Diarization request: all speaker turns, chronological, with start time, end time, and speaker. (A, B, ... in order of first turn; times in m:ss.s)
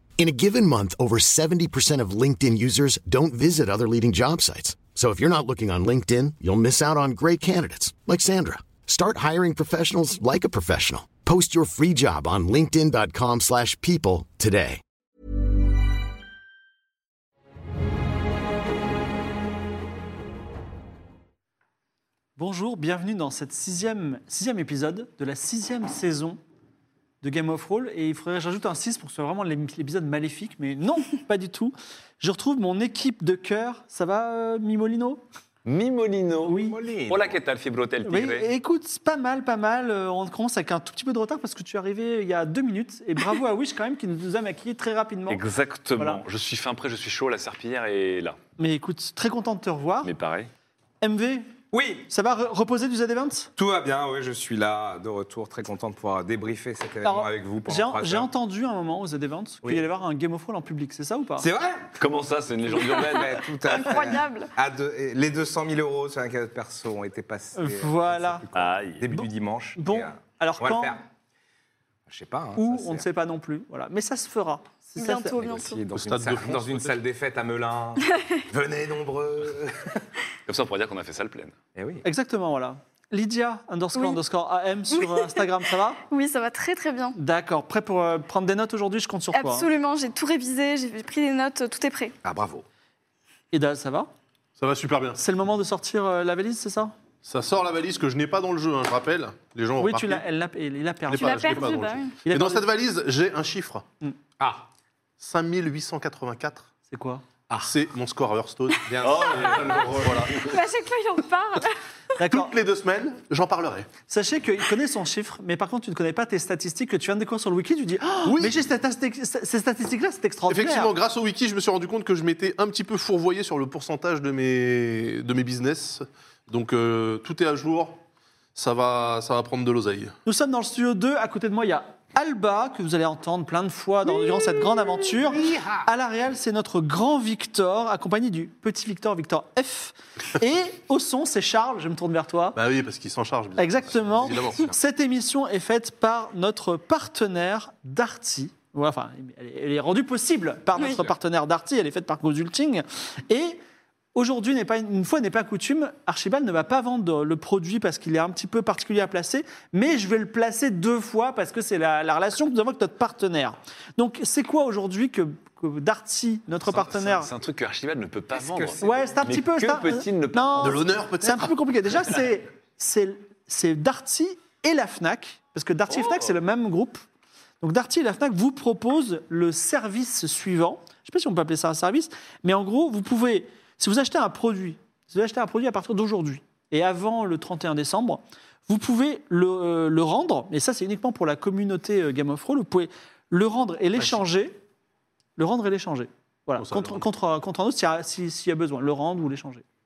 0:00.2-0:14.8 A
0:22.4-0:26.4 B
0:27.2-0:35.2 B
0:35.6-0:38.5 C
0:36.5-0:36.8 B
0:36.5-0:37.4 D
0:38.0-0:45.4 B
0:45.3-0:48.4 C
0:46.0-0:46.2 B
0:48.6-0:50.1 B
0:50.0-0:50.5 C
0:51.0-0:51.5 B
0:51.7-0:52.1 D
0:52.1-0:53.5 B
0:53.6-0:58.3 D
0:57.0-1:01.5 B
1:01.4-1:02.0 D
1:02.0-1:03.6 C
1:02.9-1:11.0 D
1:03.6-1:04.5 E
1:07.6-1:08.4 B
1:08.5-1:09.1 C
1:09.1-1:11.0 B
1:12.1-1:13.1 D
1:12.6-1:15.4 B
1:15.0-1:15.8 E
1:15.3-1:20.0 D
1:15.9-1:17.0 F
1:18.0-1:18.4 E
1:20.5-1:21.6 C
1:21.8-1:22.0 D
1:22.0-1:26.0 B
1:23.9-1:24.2 E
1:24.9-1:27.2 E
1:27.2-1:29.7 B
1:29.3-1:32.2 E
1:32.2-1:32.7 D
1:33.5-1:34.1 B
1:34.6-1:35.2 F
1:35.2-1:37.0 B
1:37.2-1:40.3 F
1:39.8-1:42.6 B
1:41.1-1:43.8 F
1:41.1-1:42.2 E
1:44.4-1:44.7 D
1:45.2-1:46.7 F
1:46.9-1:47.2 B
1:47.6-1:48.9 F
1:48.9-1:50.3 D
1:49.0-1:50.5 C
1:49.2-1:49.8 E
1:49.6-1:50.3 F
1:50.4-1:51.8 E
1:52.2-1:52.5 B
1:52.3-1:53.9 F
1:54.1-2:00.9 B
1:58.2-1:58.6 F
2:00.5-2:08.0 F
2:08.6-2:10.2 F
2:10.2-2:22.6 B
2:14.8-2:15.9 D
2:22.6-2:24.7 F
2:23.6-2:33.6 B
2:30.8-2:31.1 E
2:34.2-2:47.3 B
2:46.7-2:50.8 C
2:48.3-2:49.3 D
2:48.8-2:57.0 B
2:50.6-2:51.5 F
2:55.9-2:56.3 C
2:57.6-3:14.6 B
3:15.4-3:19.6 B
3:16.6-3:17.0 F